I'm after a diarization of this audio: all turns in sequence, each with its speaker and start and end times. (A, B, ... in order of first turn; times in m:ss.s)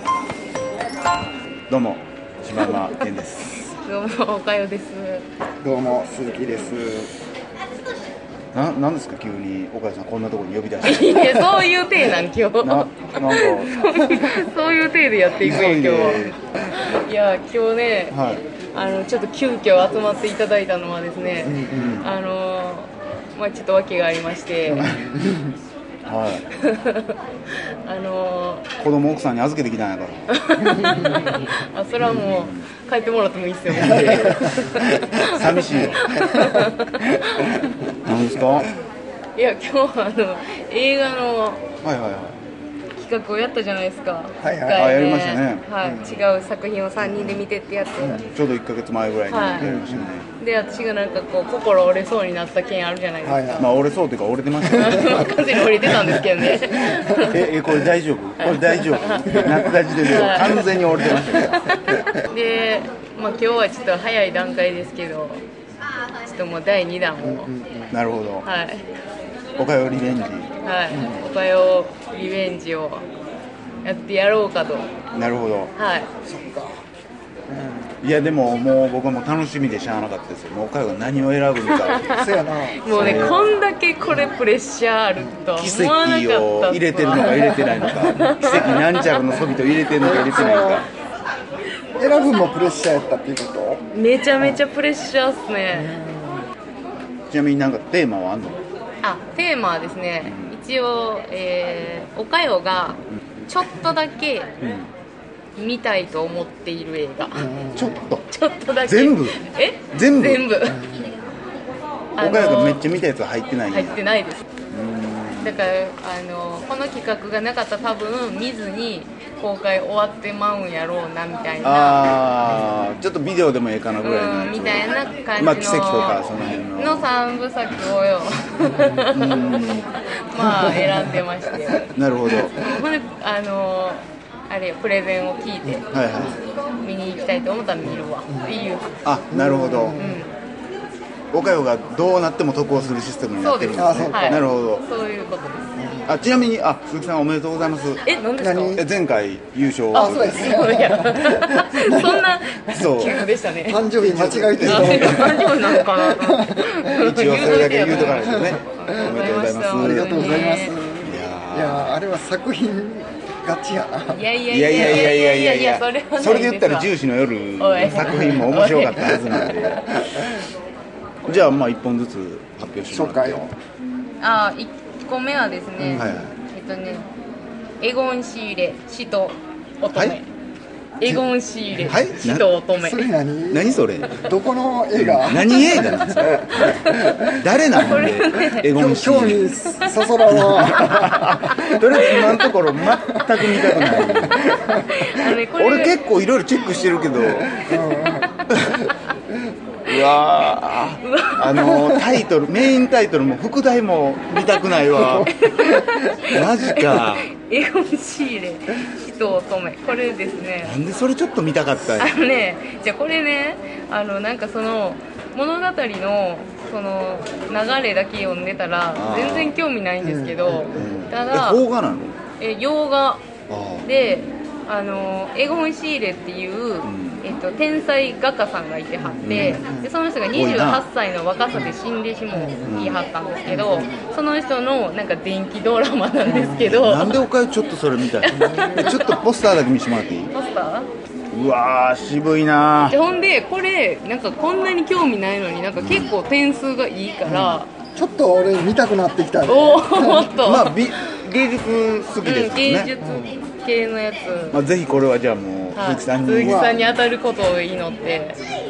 0:01.7-0:03.7 A
0:02.6-0:03.1 B
0:03.8-0:05.2 B
0:05.6-0:07.1 C
0:08.5-0:11.7 A
0:10.8-0:24.9 B
0:12.6-0:13.8 A
0:15.4-0:16.4 A
0:18.1-0:18.4 A
0:21.4-0:22.0 C
0:21.6-0:22.1 A
0:24.7-0:25.6 C
0:26.1-0:26.5 A
0:26.5-0:28.7 B
0:28.8-0:30.3 A
0:30.3-0:37.7 B
0:30.8-0:31.2 C
0:32.0-0:32.7 A
0:33.7-0:36.1 A
0:38.0-0:38.7 A
0:39.4-0:41.7 B
0:41.8-0:42.4 A
0:43.0-0:48.2 B
0:44.4-0:44.9 C
0:44.8-0:46.1 A
0:48.0-0:50.3 A
0:49.3-0:49.7 B
0:49.6-0:50.1 C
0:50.4-0:53.7 B
0:53.2-0:53.7 C
0:53.6-0:55.4 A
0:54.6-0:55.2 C
0:54.7-0:57.4 B
0:55.9-0:56.2 C
0:56.9-0:57.2 C
0:57.3-1:01.6 A
0:58.4-0:59.4 B
0:59.4-1:00.3 C
1:00.0-1:05.4 B
1:01.3-1:01.6 C
1:06.2-1:07.5 B
1:07.2-1:08.0 C
1:07.9-1:08.5 A
1:08.4-1:08.9 B
1:09.6-1:11.2 A
1:10.6-1:13.1 B
1:13.8-1:14.9 B
1:15.1-1:15.7 A
1:15.8-1:16.1 B
1:16.2-1:16.8 C
1:17.5-1:17.9 C
1:18.0-1:22.2 A
1:21.7-1:22.2 B
1:22.2-1:23.4 C
1:22.8-1:29.4 B
1:22.9-1:23.4 A
1:25.6-1:30.9 A
1:27.2-1:28.3 C
1:30.0-1:30.9 C
1:32.0-1:34.6 C
1:33.9-1:35.9 B
1:35.7-1:36.5 C
1:37.3-1:38.6 A
1:39.0-1:44.5 B
1:40.2-1:40.5 A
1:44.6-1:44.9 A
1:45.6-1:47.5 B
1:47.3-1:48.0 C
1:47.8-1:48.3 A
1:48.3-1:50.8 B
1:48.8-1:49.4 A
1:49.9-1:50.4 A
1:50.6-1:51.2 C
1:52.2-1:52.9 B
1:52.2-1:54.0 A
1:53.7-1:54.4 B
1:54.7-1:55.6 A
1:55.4-2:02.1 B
2:01.6-2:07.1 A
2:04.0-2:16.3 B
2:08.6-2:09.0 C
2:09.1-2:09.9 A
2:10.4-2:11.2 C
2:11.9-2:12.6 A
2:15.6-2:16.2 C
2:15.9-2:16.4 A
2:16.8-2:19.0 B
2:17.8-2:18.6 C
2:19.0-2:20.0 A
2:19.3-2:20.2 C
2:20.0-2:20.3 B
2:21.3-2:24.9 A
2:23.4-2:25.7 B
2:23.7-2:24.5 C
2:25.8-2:26.1 C
2:26.1-2:28.1 A
2:28.0-2:28.8 B
2:28.4-2:28.8 C
2:28.7-2:30.6 A
2:29.9-2:33.1 C
2:29.9-2:33.8 B
2:32.7-2:33.2 A
2:33.7-2:36.8 C
2:34.0-2:35.5 A
2:34.6-2:40.8 B
2:36.9-2:40.4 A
2:38.0-2:39.1 C
2:39.8-2:44.2 C
2:41.0-2:42.0 A
2:44.1-2:46.9 B
2:44.5-2:50.3 A
2:47.6-2:50.2 B
2:47.9-2:48.4 C
2:51.2-2:53.4 A
2:52.9-2:53.5 C
2:54.2-2:57.1 B
2:55.8-2:56.2 C
2:56.0-2:56.3 A
2:57.8-3:00.3 B
3:01.0-3:03.1 B
3:01.0-3:02.1 C
3:01.9-3:02.5 A
3:02.7-3:07.3 C
3:03.5-3:04.3 A
3:05.0-3:09.5 A
3:06.6-3:07.1 B
3:07.7-3:08.7 B
3:08.6-3:11.8 C
3:10.3-3:14.5 A
3:12.0-3:12.4 B
3:13.2-3:14.9 C
3:13.7-3:14.1 B
3:14.7-3:16.0 B
3:15.6-3:17.7 A
3:17.6-3:18.4 C
3:18.5-3:18.9 A
3:19.9-3:25.3 A
3:21.0-3:21.8 B
3:21.7-3:22.0 C
3:25.0-3:26.1 C
3:25.1-3:30.8 B
3:26.3-3:27.3 A
3:30.6-3:32.2 A
3:32.0-3:41.6 B
3:39.0-3:39.6 A
3:40.0-3:40.9 C
3:40.7-3:42.2 A
3:42.4-3:43.2 B
3:43.5-3:43.9 A
3:43.8-3:57.2 B
3:46.8-3:47.2 A
3:49.0-3:49.9 C
3:49.2-3:49.8 A
3:50.3-3:50.8 A
3:52.3-3:52.8 C
3:52.7-3:53.0 A
3:53.4-3:54.1 C
3:56.2-3:56.7 C
3:56.6-4:00.3 A
3:58.2-3:59.2 B
4:00.3-4:00.9 B
4:01.3-4:03.0 A
4:02.8-4:07.7 B
4:05.8-4:06.1 A
4:07.3-4:07.6 A
4:08.0-4:10.3 C
4:09.5-4:11.1 B
4:10.4-4:12.9 A
4:12.2-4:14.6 B
4:13.0-4:13.4 C
4:14.5-4:16.7 A
4:15.7-4:18.4 B
4:16.4-4:16.8 C